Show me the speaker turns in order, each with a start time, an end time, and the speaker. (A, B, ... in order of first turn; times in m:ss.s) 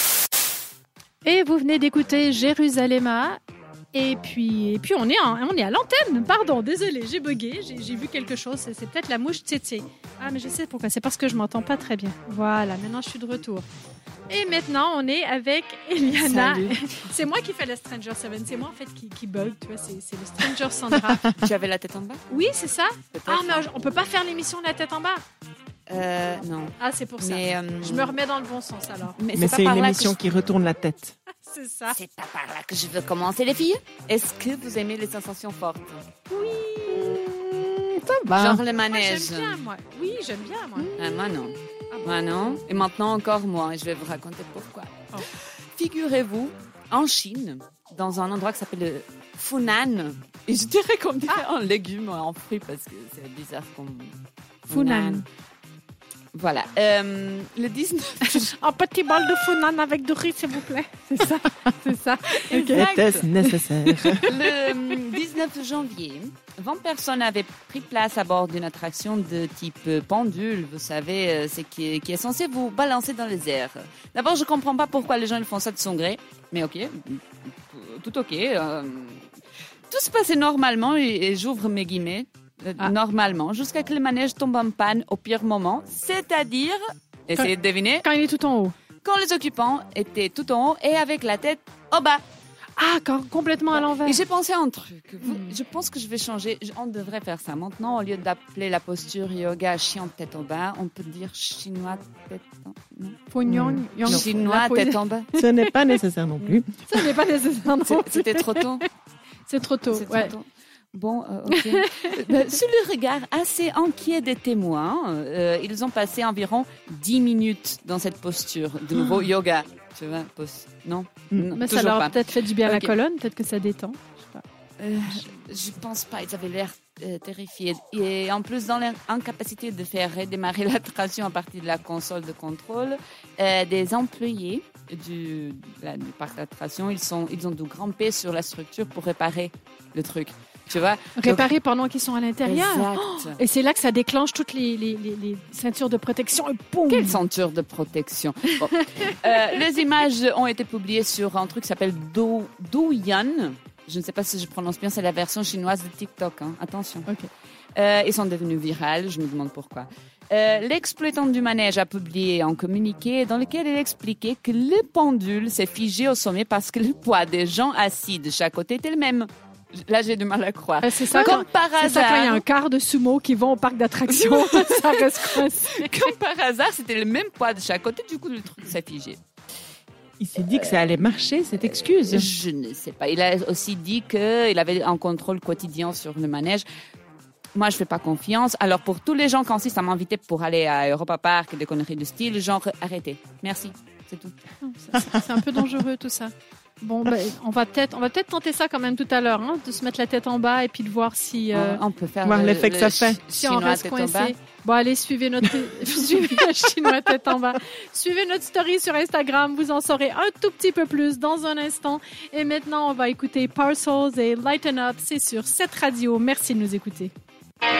0:01.2-0:03.4 A
0:03.9-0:13.7 A
0:14.3-0:21.3 A
0:16.2-0:17.0 B
0:21.4-0:22.3 B
0:22.3-0:25.2 A
0:23.1-0:23.7 B
0:25.9-0:28.2 B
0:26.8-0:29.2 A
0:29.2-0:30.2 B
0:29.3-0:31.2 C
0:31.4-0:32.0 A
0:31.9-0:36.1 B
0:36.3-0:37.3 A
0:38.3-0:39.6 B
0:38.8-0:41.1 A
0:41.0-0:54.2 B
0:54.7-0:55.2 B
0:54.7-0:55.2 A
0:56.3-0:58.5 B
0:58.3-1:05.0 A
1:02.5-1:04.3 C
1:02.6-1:03.3 B
1:04.2-1:19.3 B
1:19.9-1:28.1 B
1:28.0-1:28.7 A
1:29.0-1:32.2 B
1:32.8-1:34.2 A
1:33.7-1:45.3 B
1:35.2-1:35.6 A
1:43.3-1:45.8 A
1:43.5-1:44.2 C
1:45.3-1:47.0 C
1:46.9-1:48.9 A
1:47.8-1:48.8 B
1:49.5-1:50.3 A
1:49.9-2:02.9 B
1:51.5-1:52.4 A
2:01.5-2:04.4 A
2:04.8-2:21.5 B
2:21.2-2:27.2 A
2:22.4-2:23.4 B
2:26.9-2:37.1 B
2:37.8-2:52.4 B
2:50.8-2:56.2 A
2:54.1-2:59.2 B
3:00.2-3:02.3 C
3:00.5-3:01.0 B
3:01.6-3:06.6 B
3:07.6-3:14.4 B
3:14.6-3:21.8 A
3:21.5-3:24.3 B
3:22.2-3:23.2 C
3:23.3-3:37.1 A